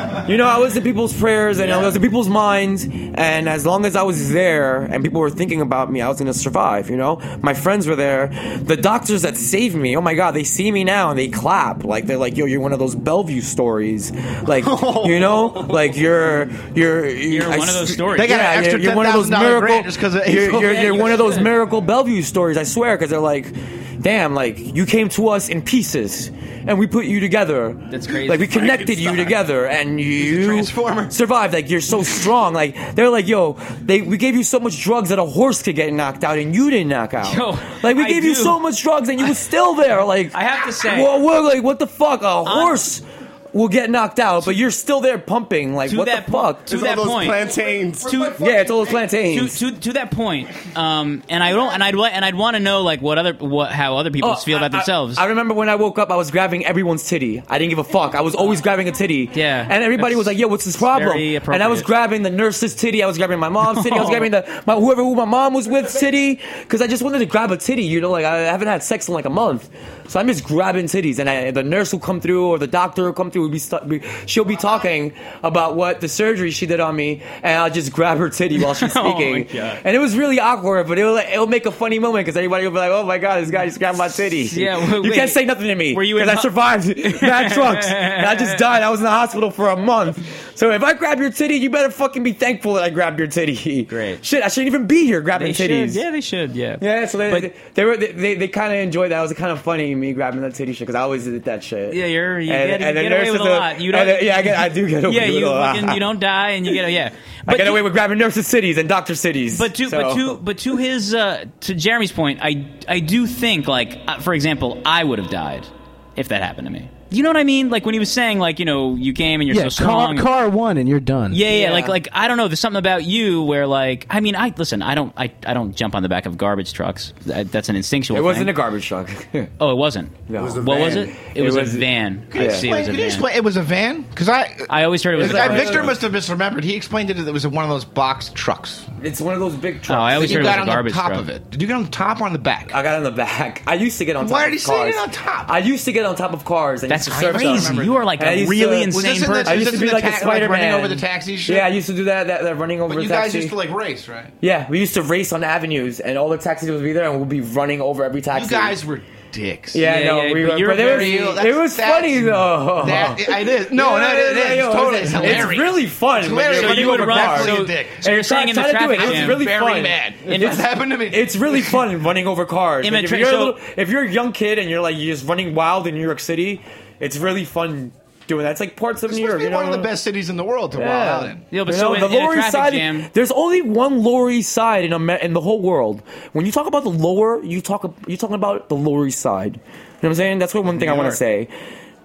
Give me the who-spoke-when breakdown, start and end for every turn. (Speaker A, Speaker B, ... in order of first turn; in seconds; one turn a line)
Speaker A: 0.2-46.7
Speaker B: 1.6-1.9
Speaker C: 14.5-16.0
Speaker D: 17.3-18.4
Speaker B: 18.1-21.3
Speaker D: 20.6-21.5
Speaker D: 27.9-29.3
Speaker B: 30.2-31.1
Speaker D: 37.2-38.6
Speaker D: 40.3-41.1
Speaker D: 42.4-42.9
Speaker D: 45.9-47.5
Speaker C: 46.7-48.1
Speaker D: 48.0-48.4
Speaker B: 48.0-48.9
Speaker A: 48.4-49.6
Speaker D: 49.1-55.2
Speaker A: 54.2-96.0
Speaker D: 59.3-61.9
Speaker D: 63.6-64.3
Speaker D: 78.6-79.8
Speaker D: 84.5-88.7
Speaker D: 93.9-94.2
Speaker D: 95.3-97.5
Speaker A: 96.8-106.0
Speaker D: 101.9-107.8
Speaker A: 107.5-110.4
Speaker D: 109.5-120.3
Speaker E: 119.5-121.4
Speaker D: 121.3-128.5
Speaker A: 121.5-122.0
Speaker A: 128.1-129.5
Speaker D: 129.6-133.3
Speaker A: 130.3-132.7
Speaker C: 130.4-131.1
Speaker B: 132.3-138.9
Speaker D: 134.7-136.0
Speaker A: 135.2-136.0
Speaker A: 139.0-140.6
Speaker D: 139.9-141.2
Speaker B: 140.2-142.8
Speaker A: 142.7-153.6
Speaker B: 144.2-145.5
Speaker D: 146.9-149.8
Speaker B: 147.2-148.0
Speaker B: 148.9-151.7
Speaker B: 152.9-154.3
Speaker A: 154.4-158.8
Speaker B: 158.3-159.8
Speaker A: 159.7-179.9
Speaker D: 159.8-161.4
Speaker B: 160.8-168.0
Speaker D: 165.2-165.6
Speaker D: 166.5-169.5
Speaker B: 168.9-171.6
Speaker D: 170.2-170.6
Speaker D: 172.8-173.6
Speaker B: 179.1-181.4
Speaker A: 180.7-191.5
Speaker D: 181.5-183.1
Speaker D: 190.8-191.2